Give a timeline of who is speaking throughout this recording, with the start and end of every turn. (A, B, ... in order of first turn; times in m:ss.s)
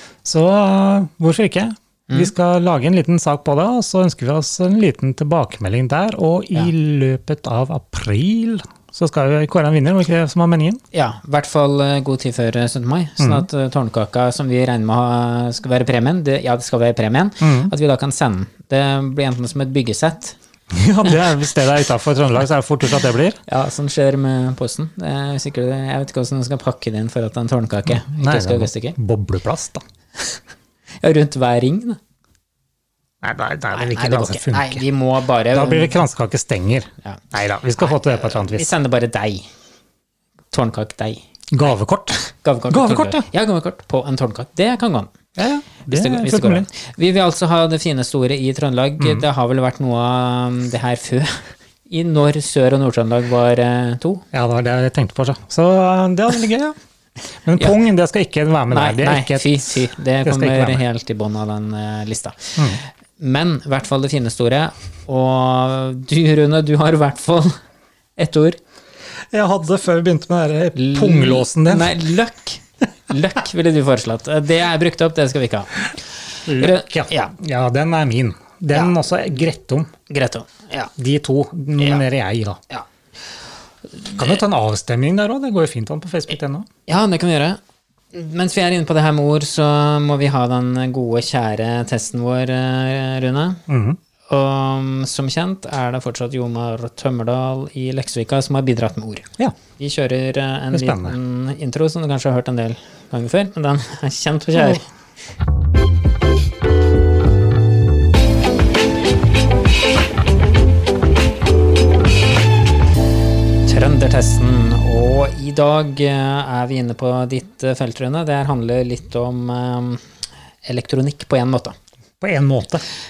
0:00.2-0:10.8 A
0:10.9-0:20.4 B
0:13.2-0:13.5 A
0:17.4-0:17.7 A
0:20.7-0:23.4 A
0:23.5-0:29.0 B
0:27.9-0:29.8 A
0:31.0-0:32.0 B
0:33.2-0:34.8 A
0:33.7-0:36.0 B
0:35.5-0:38.7 A
0:37.8-0:39.5 B
0:40.5-0:41.2 B
0:41.5-0:43.3 A
0:42.1-0:45.1 B
0:45.4-0:46.7 A
0:45.8-0:54.2 B
0:49.0-0:49.3 A
0:54.3-0:56.8 A
0:57.4-1:00.8 A
0:58.7-1:07.6 B
1:08.2-1:08.6 B
1:09.3-1:12.0 A
1:10.8-1:16.0 B
1:16.5-1:17.3 B
1:16.5-1:19.9 A
1:18.7-1:19.0 B
1:20.1-1:20.9 B
1:21.0-1:22.6 A
1:24.1-1:26.7 A
1:26.9-1:27.6 B
1:28.1-1:33.6 B
1:33.7-1:34.0 A
1:34.3-1:44.9 B
1:40.7-1:41.2 A
1:53.7-2:00.0 B
2:00.6-2:01.8 B
2:02.2-2:02.8 A